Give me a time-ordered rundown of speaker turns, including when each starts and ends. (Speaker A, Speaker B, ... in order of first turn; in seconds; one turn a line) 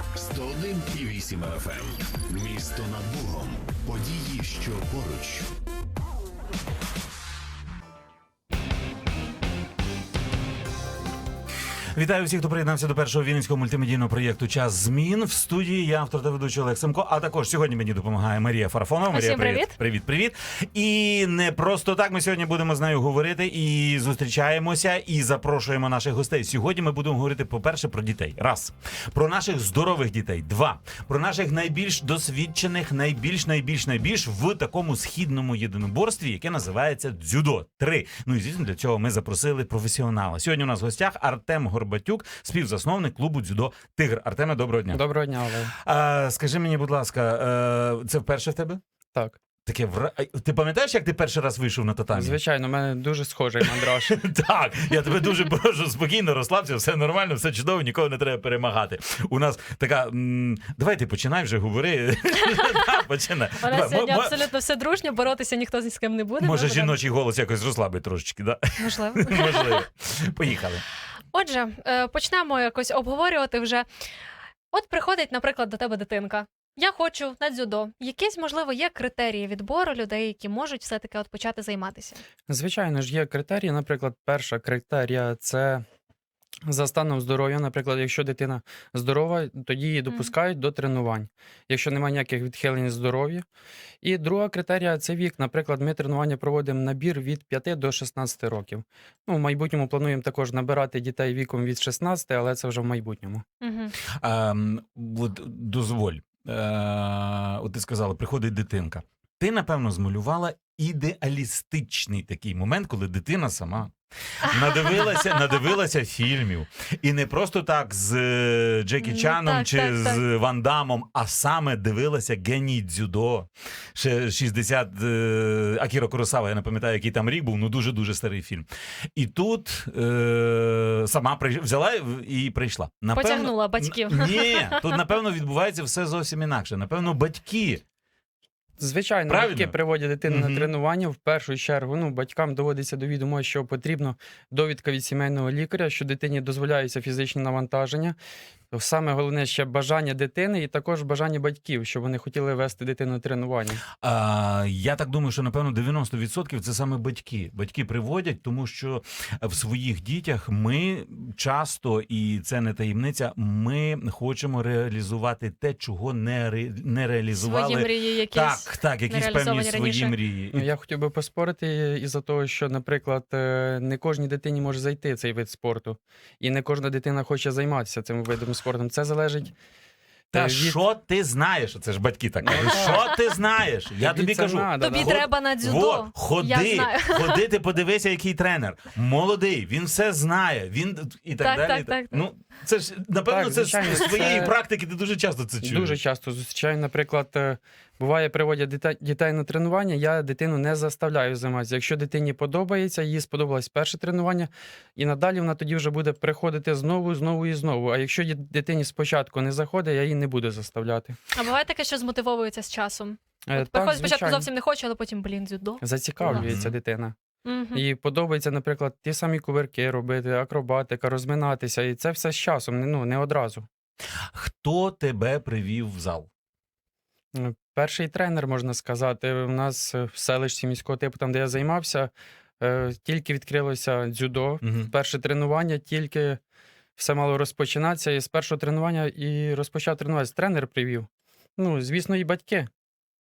Speaker A: 0.1-5.5
Speaker B: 11.9-45.0
Speaker C: 19.1-19.7
Speaker D: 44.9-45.7
Speaker B: 45.7-48.8
Speaker B: 49.6-52.4
Speaker D: 52.1-54.2
Speaker B: 53.6-64.4
Speaker C: 62.5-63.0
Speaker C: 63.6-66.9
Speaker B: 66.4-70.8
Speaker C: 68.8-69.8
Speaker C: 71.3-73.8
Speaker C: 74.7-82.2
Speaker D: 82.5-85.8
Speaker D: 86.7-93.4
Speaker D: 94.0-103.4
Speaker C: 103.6-103.9
Speaker B: 104.0-137.8
Speaker C: 119.0-120.2
Speaker C: 133.1-134.9
Speaker D: 138.8-148.2
Speaker B: 139.3-140.7
Speaker D: 148.7-153.8
Speaker B: 153.9-170.7
Speaker C: 167.3-170.1
Speaker D: 170.5-179.5
Speaker D: 180.3-180.8
Speaker B: 180.3-196.0
Speaker D: 182.4-183.1
Speaker D: 184.0-185.2
Speaker C: 184.8-187.4
Speaker C: 191.4-192.2
Speaker D: 193.3-194.5
Speaker D: 195.6-211.2
Speaker C: 211.3-216.4
Speaker D: 213.5-214.4
Speaker D: 215.8-217.1
Speaker B: 216.2-216.7
Speaker C: 217.4-217.8
Speaker D: 217.7-223.7
Speaker B: 224.3-226.3
Speaker D: 227.3-236.4
Speaker B: 234.6-234.9
Speaker D: 236.9-242.7